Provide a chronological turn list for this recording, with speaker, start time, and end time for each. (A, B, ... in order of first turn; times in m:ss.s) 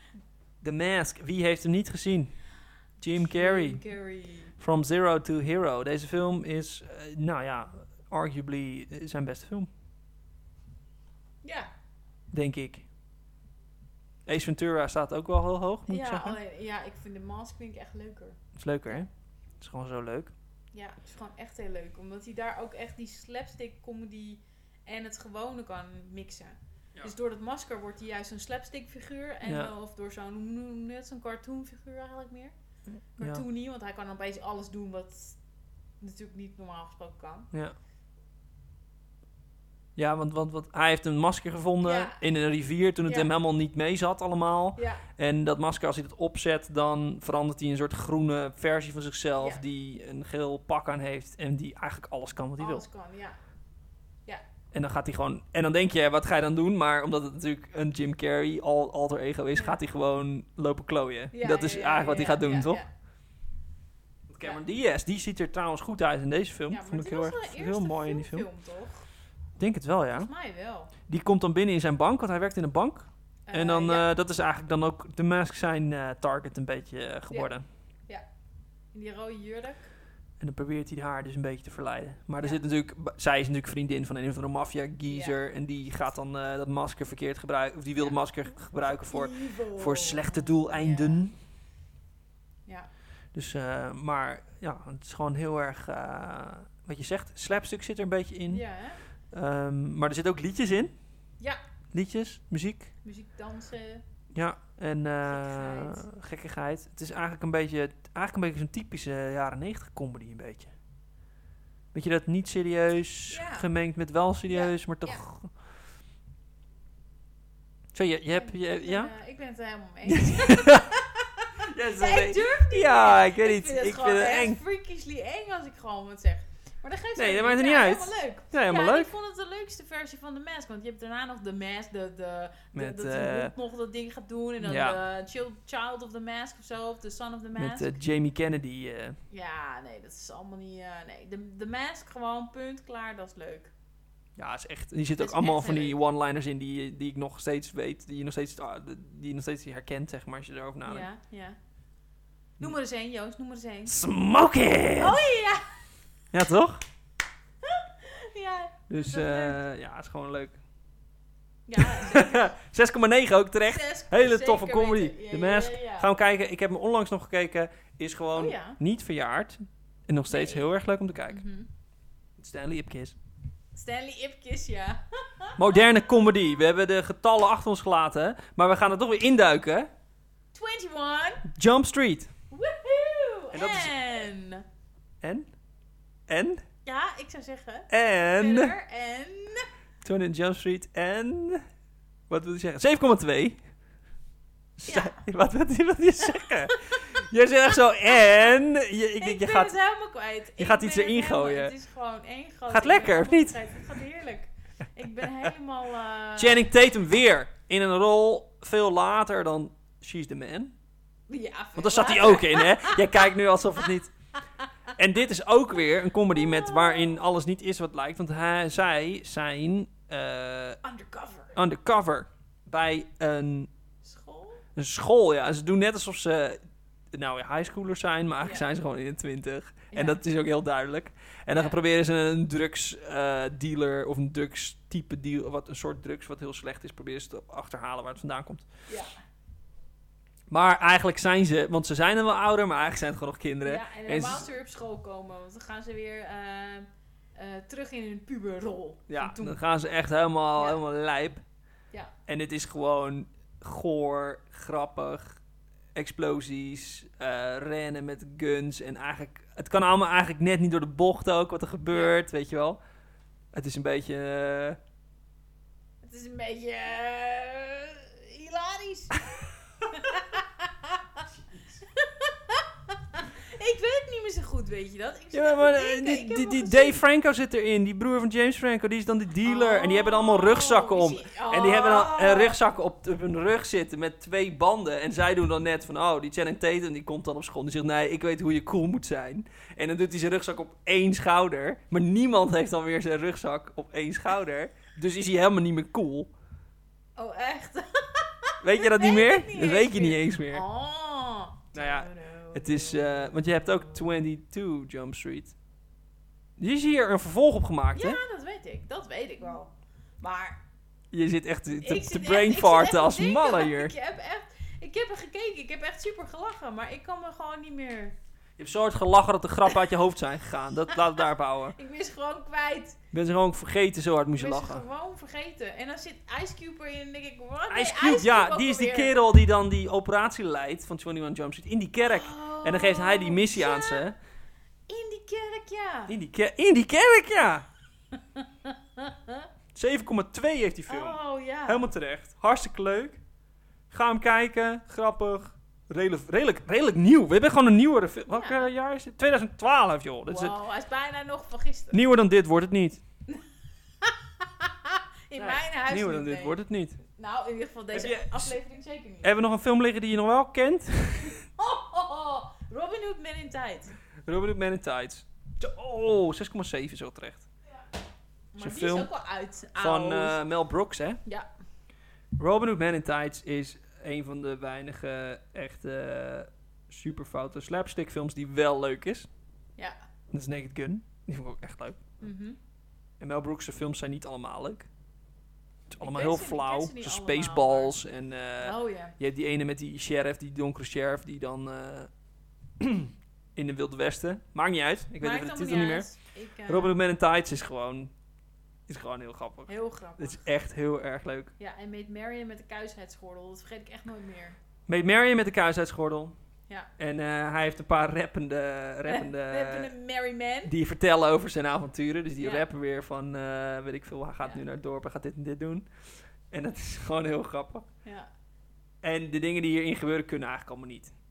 0:00.6-0:02.3 A
0:03.0-0:03.8 A
0:03.2-0:04.5 B
0:04.6-0:09.7 A
0:11.4-0:11.7 B
0:12.3-0:12.8 A
0:14.3-0:16.4 A
0:15.9-0:19.0 B
0:18.6-0:19.1 A
0:19.6-0:20.3 A
0:20.7-0:32.5 B
0:29.4-0:29.7 A
0:33.2-0:35.4 B
0:33.2-0:33.4 A
0:36.0-0:37.5 B
0:40.0-0:52.8 A
0:41.8-0:42.2 B
0:43.0-0:43.3 B
0:44.8-0:45.0 B
0:52.6-0:53.4 B
0:54.7-1:02.8 A
1:01.3-1:02.9 B
1:04.3-1:08.5 A
1:06.7-1:09.1 B
1:09.6-1:10.3 A
1:10.2-1:10.9 B
1:11.1-1:17.6 A
1:13.5-1:14.1 B
1:18.9-1:19.9 B
1:20.4-1:31.3 A
1:25.1-1:25.4 B
1:28.8-1:31.3 B
1:33.3-1:38.6 A
1:38.5-1:39.0 B
1:39.3-1:40.9 A
1:41.9-1:42.9 A
1:43.0-1:44.0 B
1:44.3-1:50.7 A
1:45.2-1:46.0 B
1:51.9-1:55.5 A
1:53.3-1:53.7 B
1:54.5-1:55.2 B
1:57.9-1:59.1 A
1:58.3-2:18.0 B
2:00.1-2:00.9 A
2:01.6-2:04.6 A
2:07.2-2:09.1 A
2:12.8-2:13.5 A
2:14.6-2:15.0 A
2:17.6-2:19.2 A
2:19.3-2:23.7 B
2:24.4-2:31.1 A
2:25.2-2:26.0 B
2:30.8-2:31.6 B
2:32.6-2:34.0 B
2:33.9-2:35.2 A
2:35.0-2:35.7 B
2:36.3-2:36.8 A
2:37.6-2:39.6 B
2:38.9-2:40.6 A
2:41.7-2:42.5 B
2:41.8-2:51.4 A
2:43.6-2:46.1 B
2:48.3-2:48.8 B
2:50.3-2:50.7 B
2:51.3-2:51.7 B
2:52.4-2:53.2 A
2:53.7-2:55.8 B
2:55.6-2:59.9 A
3:00.5-3:01.5 B
3:01.5-3:02.3 A
3:02.5-3:04.6 B
3:03.5-3:04.1 A
3:05.2-3:05.5 A
3:06.3-3:06.6 A
3:06.8-3:09.7 B
3:07.9-3:08.7 A
3:10.0-3:11.6 A
3:12.3-3:13.6 A
3:14.8-3:19.8 A
3:14.9-3:15.2 B
3:16.2-3:17.0 B
3:18.1-3:18.6 B
3:19.2-3:26.7 B
3:20.6-3:21.7 A
3:22.7-3:23.8 A
3:25.2-3:25.5 A
3:26.4-3:30.8 A
3:31.3-3:33.9 B
3:31.8-3:34.1 A
3:35.0-3:40.8 A
3:36.3-3:37.2 B
3:40.8-3:41.6 B
3:41.5-3:43.7 A
3:44.0-3:44.6 B
3:44.8-3:46.6 A
3:47.1-3:58.7 A
3:48.4-3:48.7 B
3:49.9-3:50.2 B
3:51.5-3:51.8 B
4:00.5-4:04.5 A
4:03.6-4:09.6 B
4:09.1-4:11.4 A
4:12.3-4:15.4 A
4:16.0-4:22.8 A
4:21.9-4:22.2 B
4:23.5-4:24.8 A
4:26.0-4:31.3 B
4:31.8-4:37.0 B
4:35.3-4:56.3 A
4:39.4-4:42.6 B
4:57.2-5:04.0 B
4:58.6-5:00.6 A
5:01.7-5:05.6 A
5:06.6-5:08.2 A
5:07.9-5:10.6 B
5:11.1-5:13.9 A
5:11.8-5:18.2 B
5:18.6-5:21.8 A
5:21.7-5:23.0 B
5:23.1-5:24.8 A
5:24.4-5:29.1 B
5:27.7-5:34.2 A
5:32.0-5:34.0 B
5:34.9-5:36.2 B
5:36.1-5:37.7 A
5:38.3-5:39.5 B
5:39.7-5:43.2 A
5:40.9-5:41.9 B
5:43.9-5:50.6 A
5:48.3-5:48.7 B
5:50.3-5:52.0 B
5:51.9-5:53.0 A
5:54.0-5:59.4 B
5:55.4-5:57.0 A
5:57.9-5:58.6 A
5:59.2-6:01.4 A
6:01.6-6:04.0 B
6:04.2-6:07.5 A
6:08.5-6:10.4 B
6:08.6-6:09.1 A
6:09.8-6:11.2 A
6:12.4-6:19.3 A
6:20.3-6:22.0 A
6:22.2-6:22.6 B
6:23.2-6:24.9 A
6:25.9-6:32.1 A
6:26.0-6:28.0 B
6:28.6-6:29.2 B
6:32.8-6:36.1 A
6:35.2-6:36.9 B
6:36.7-6:38.1 A
6:38.9-6:41.5 A
6:39.7-6:40.5 B
6:41.6-6:44.6 B
6:44.9-6:46.4 A
6:47.0-6:49.9 A
6:49.1-6:50.7 B
6:50.7-6:55.9 A
6:52.4-6:52.7 B
6:56.5-6:57.8 A
6:59.0-7:01.1 A